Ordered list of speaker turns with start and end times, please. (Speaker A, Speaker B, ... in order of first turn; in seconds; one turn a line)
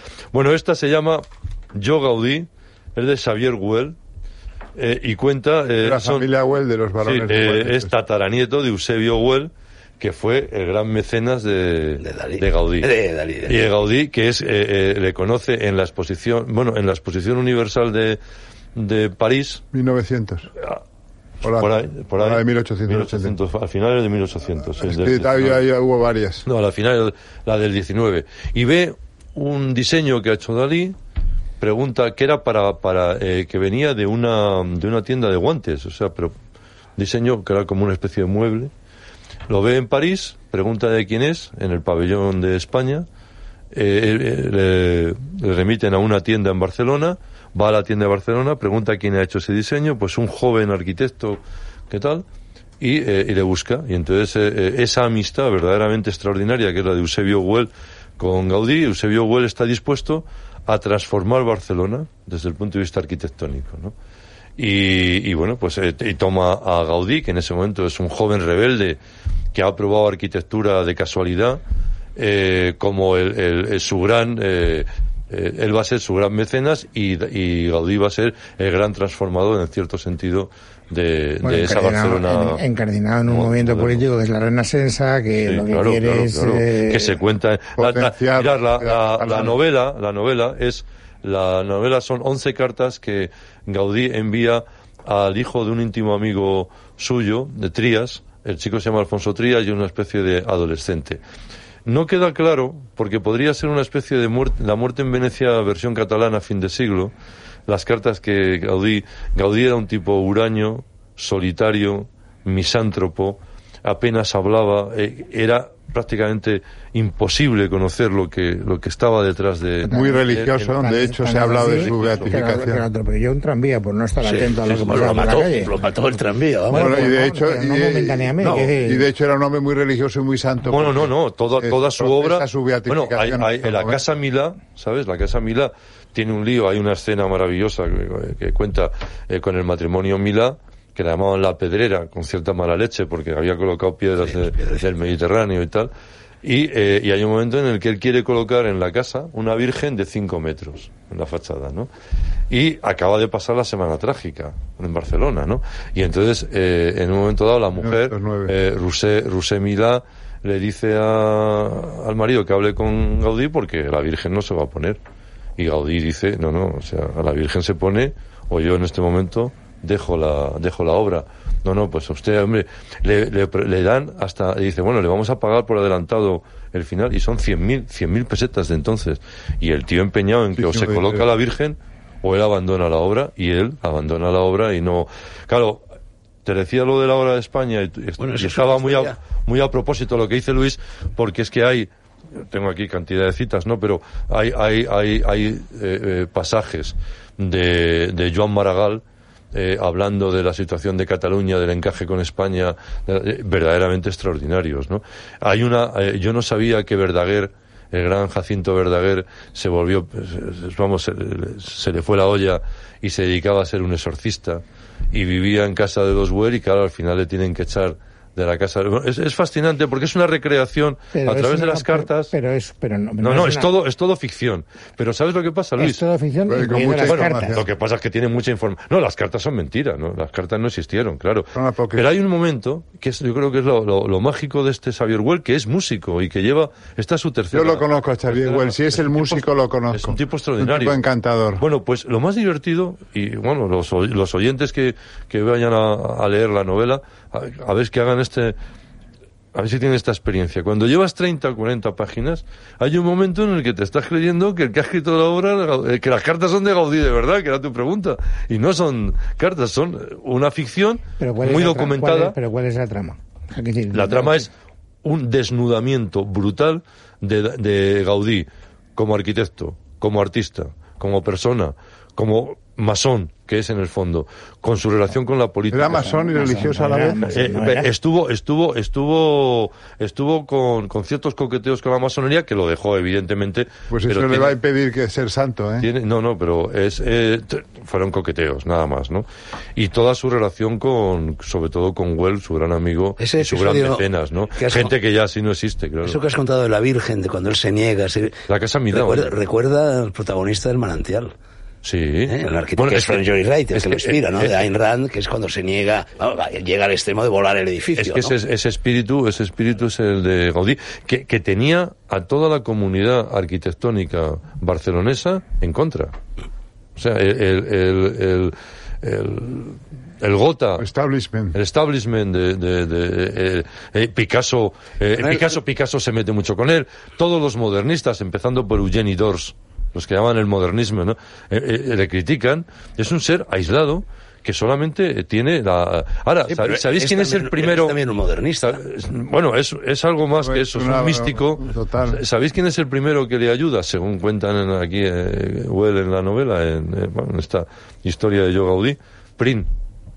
Speaker A: 0.3-4.0
Speaker A: 4.8-6.3
Speaker B: 5.8-7.9
Speaker A: 7.0-12.9
Speaker C: 12.0-13.6
Speaker A: 13.4-18.2
Speaker A: 18.8-19.6
Speaker B: 19.7-20.5
Speaker B: 21.4-23.3
Speaker A: 21.5-25.6
Speaker B: 24.8-26.4
Speaker A: 26.4-30.9
Speaker A: 31.6-36.3
Speaker A: 37.0-38.7
Speaker A: 39.5-43.0
Speaker A: 43.7-52.2
Speaker A: 52.8-63.9
Speaker A: 64.6-69.0
Speaker A: 69.5-71.6
Speaker A: 72.2-82.6
Speaker D: 81.4-87.1
Speaker A: 83.3-84.0
Speaker A: 85.4-101.2
Speaker B: 87.8-89.6
Speaker A: 101.8-107.1
Speaker A: 107.7-120.7
Speaker D: 119.8-120.2
Speaker B: 119.9-122.8
Speaker D: 120.8-125.7
Speaker A: 121.5-122.3
Speaker C: 124.2-127.1
Speaker D: 126.7-129.1
Speaker B: 126.7-134.0
Speaker C: 128.4-128.7
Speaker A: 130.7-145.9
Speaker C: 144.2-144.8
Speaker A: 146.4-151.9
Speaker A: 152.5-165.0
Speaker B: 157.8-158.5
Speaker A: 165.6-185.8
Speaker B: 180.6-181.3
Speaker A: 186.4-199.0
Speaker C: 188.2-189.2
Speaker A: 199.5-222.3
Speaker D: 221.1-223.7
Speaker A: 223.2-226.0
Speaker D: 225.8-227.6
Speaker B: 226.5-227.6
Speaker A: 227.0-241.0
Speaker B: 231.5-232.1
Speaker B: 237.5-241.6
Speaker A: 241.6-248.6
Speaker A: 249.5-262.3
Speaker D: 261.2-264.5
Speaker A: 263.9-264.5
Speaker A: 265.0-276.1
Speaker B: 275.7-277.4
Speaker D: 275.9-277.9
Speaker A: 277.3-284.5
Speaker B: 283.9-285.9
Speaker A: 285.8-296.2
Speaker C: 293.2-294.0
Speaker C: 294.6-294.9
Speaker C: 296.0-298.4
Speaker A: 298.5-299.3
Speaker C: 298.9-301.3
Speaker A: 301.8-303.2
Speaker C: 302.3-308.3
Speaker A: 303.7-304.6
Speaker A: 308.0-316.1
Speaker A: 316.9-320.9
Speaker B: 320.8-321.6
Speaker A: 321.5-338.0
Speaker C: 325.2-325.5
Speaker C: 336.5-338.8
Speaker A: 338.6-349.7
Speaker B: 340.4-342.2